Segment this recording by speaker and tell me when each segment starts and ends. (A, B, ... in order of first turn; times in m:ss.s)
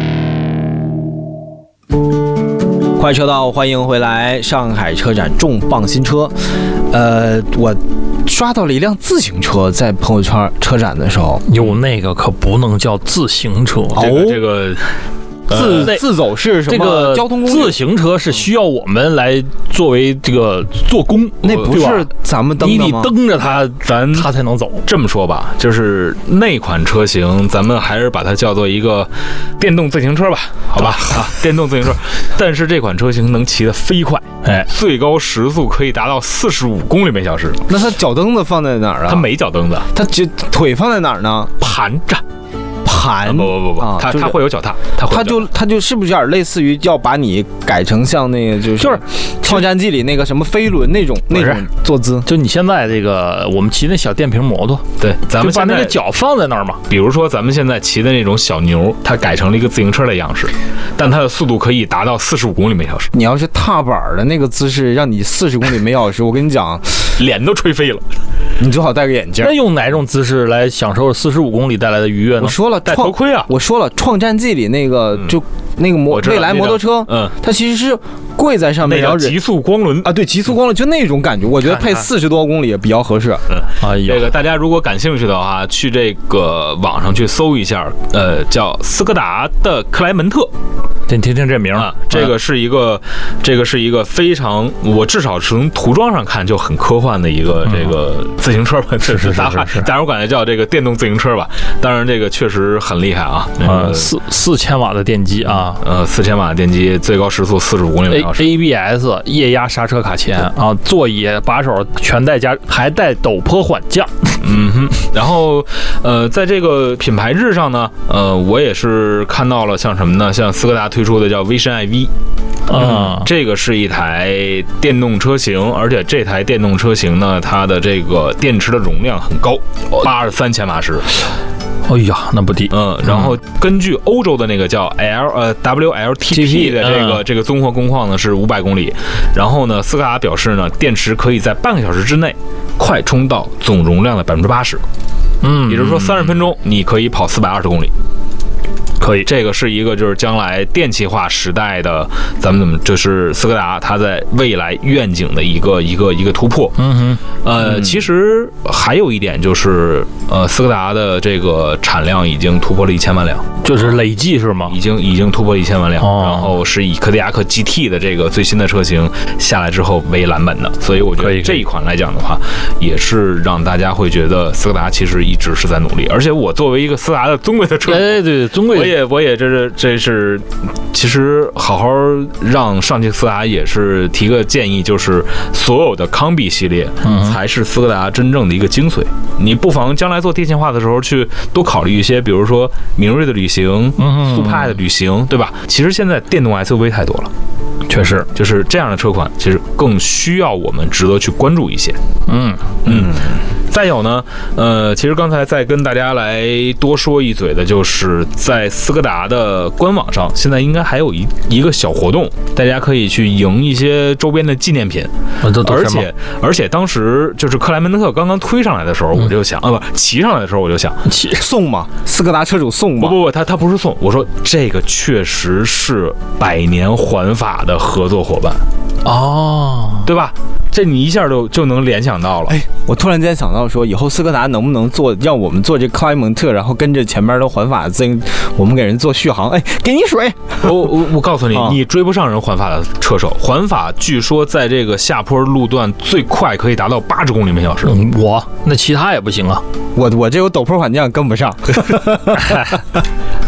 0:03.0-0:11.4 A
0:11.4-0:14.1 B
0:13.9-0:14.4 A
0:14.0-0:16.0 C
0:15.5-0:17.8 A
0:15.8-0:16.0 B
0:16.7-0:24.9 B
0:21.4-0:23.1 A
0:21.5-0:21.7 C
0:23.8-0:24.3 C
0:24.8-0:37.6 C
0:37.7-0:39.3 A
0:39.1-0:39.9 C
0:39.9-0:41.5 A
0:41.6-0:42.2 C
0:42.8-0:44.4 A
0:43.2-0:45.4 C
0:45.1-0:52.3 A
0:48.8-0:49.6 B
0:51.3-0:51.6 B
0:52.2-0:56.8 B
0:55.0-0:56.0 C
0:56.9-1:03.1 C
1:03.1-1:07.2 A
1:07.2-1:08.0 C
1:08.6-1:09.6 A
1:09.4-1:12.6 B
1:12.4-1:19.4 A
1:12.9-1:13.5 C
1:16.1-1:17.3 C
1:18.8-1:20.1 C
1:20.0-1:23.4 A
1:21.6-1:22.1 B
1:23.5-1:30.5 C
1:23.8-1:24.3 B
1:31.1-1:32.3 B
1:31.8-1:44.1 C
1:37.6-1:38.0 B
1:39.0-1:39.9 B
1:43.6-1:45.8 B
1:45.4-1:48.6 C
1:48.1-1:54.4 B
1:54.4-2:02.1 C
2:02.7-2:03.3 B
2:02.7-2:11.1 C
2:11.9-2:13.3 B
2:12.7-2:24.8 C
2:16.3-2:17.2 B
2:25.4-2:26.4 B
2:25.7-2:27.9 C
2:29.0-2:29.3 B
2:29.2-2:36.8 C
2:36.8-2:37.2 B
2:37.4-2:44.0 C
2:43.6-2:44.8 B
2:44.7-3:17.3 C
2:46.0-2:46.5 B
2:51.2-2:51.6 B
2:57.8-2:59.0 B
3:07.0-3:07.4 B
3:14.0-3:14.8 B
3:17.9-3:18.3 B
3:18.4-3:22.0 C
3:22.3-3:22.7 B
3:22.8-3:41.0 C
3:35.4-3:36.1 B
3:41.1-3:41.4 B
3:41.4-3:43.2 A
3:43.0-3:48.6 C
3:49.0-3:50.1 B
3:50.0-3:52.6 C
3:52.5-4:00.9 A
4:00.6-4:08.0 C
4:01.5-4:01.8 A
4:07.8-4:09.6 B
4:10.0-4:12.8 A